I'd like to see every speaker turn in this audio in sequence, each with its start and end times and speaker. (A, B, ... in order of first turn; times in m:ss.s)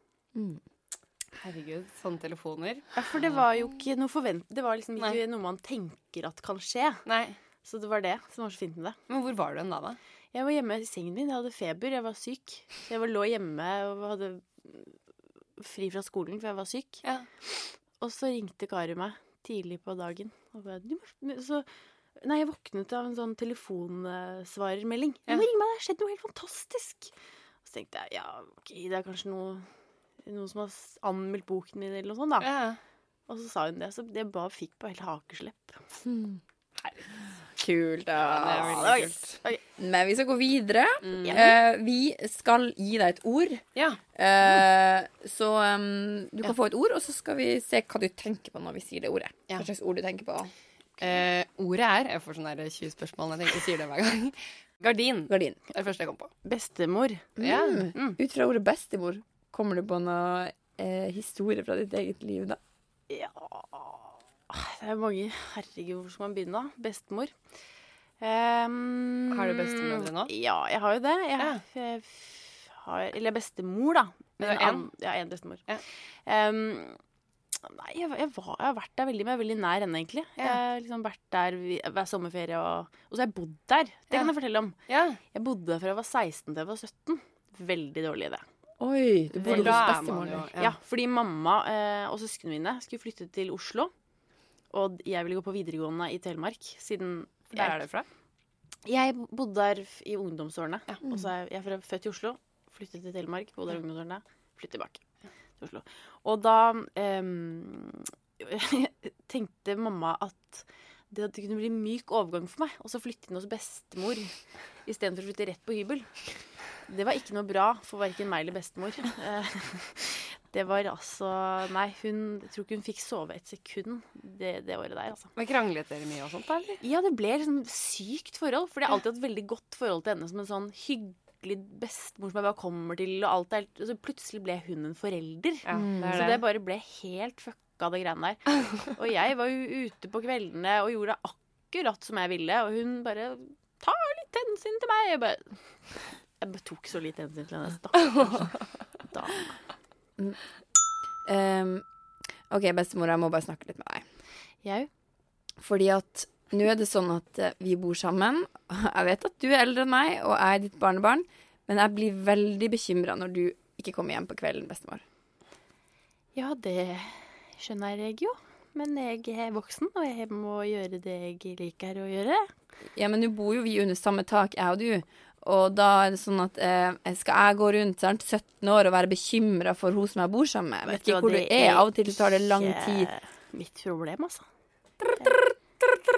0:00.4-0:00.6 A
0:01.4-0:02.9 B
0:03.0-0:07.0 C
0:07.1-0:07.4 B
0:07.6-0:09.0 C
0:09.1-0:10.0 B
0:10.3-0:15.0 C
0:15.6-0:17.0 C
0:18.0-0:21.7 C
0:22.2-0:27.1 C
0:27.6-0:29.6 C
0:30.2-0:32.5 C
0:32.4-0:32.8 B
0:33.3-0:35.8 C
0:36.0-0:36.4 A
0:37.6-0:38.9 A
0:38.3-0:39.4 B
0:38.6-0:39.6 C
0:39.8-0:43.6 A
0:41.1-0:41.5 B
0:41.2-0:41.6 C
0:44.2-0:50.5 A
0:51.0-0:56.3 B
0:55.3-0:55.6 A
0:56.4-0:57.4 C
0:57.4-1:02.6 A
0:57.4-0:58.0 B
1:03.1-1:07.3 C
1:08.2-1:15.6 C
1:09.3-1:10.3 B
1:14.4-1:14.8 B
1:16.2-1:17.0 C
1:17.6-1:24.8 C
1:24.9-1:25.2 B
1:25.3-1:28.4 C
1:28.8-1:30.5 A
1:29.4-1:33.9 C
1:29.4-1:30.8 B
1:34.7-1:37.8 C
1:37.5-1:38.1 B
1:38.8-1:45.0 C
1:45.6-1:54.3 C
1:54.8-1:56.1 C
1:56.9-2:05.3 C
2:05.4-2:06.8 B
2:06.8-2:25.6 C
2:15.6-2:16.4 B
2:15.7-2:16.2 A
2:26.4-2:29.6 C
2:31.2-2:31.8 A
2:32.5-2:34.0 A
2:34.6-2:34.9 C
2:35.6-2:45.0 A
2:46.4-2:52.5 C
2:53.0-3:03.1 A
3:00.9-3:04.4 C